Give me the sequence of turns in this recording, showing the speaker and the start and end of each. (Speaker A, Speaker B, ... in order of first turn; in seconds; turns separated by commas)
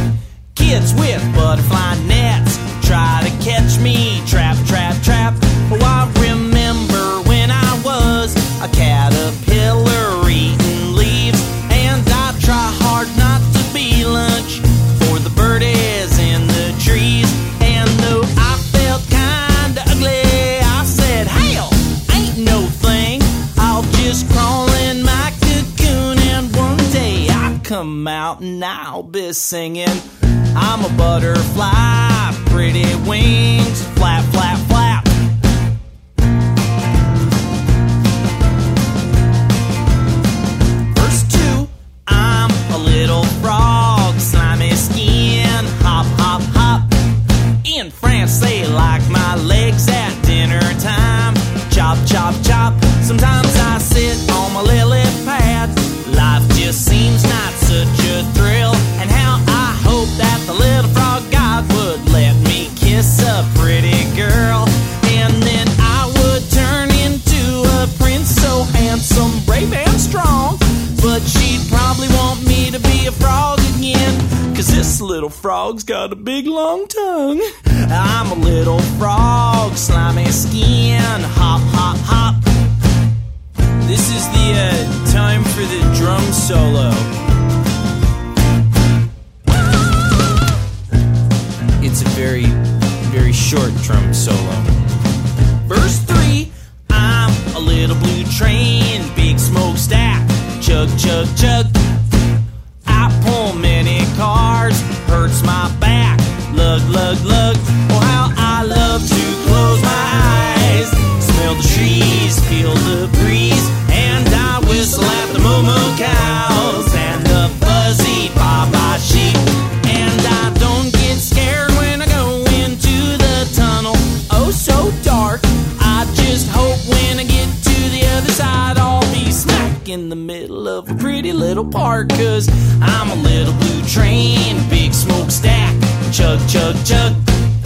Speaker A: 0.5-35.1, Speaker A: 40.9-47.0, Speaker A: 47.6-82.5, Speaker A: 83.8-87.1, Speaker A: 91.8-94.8, Speaker A: 95.7-101.8, Speaker A: 102.8-137.3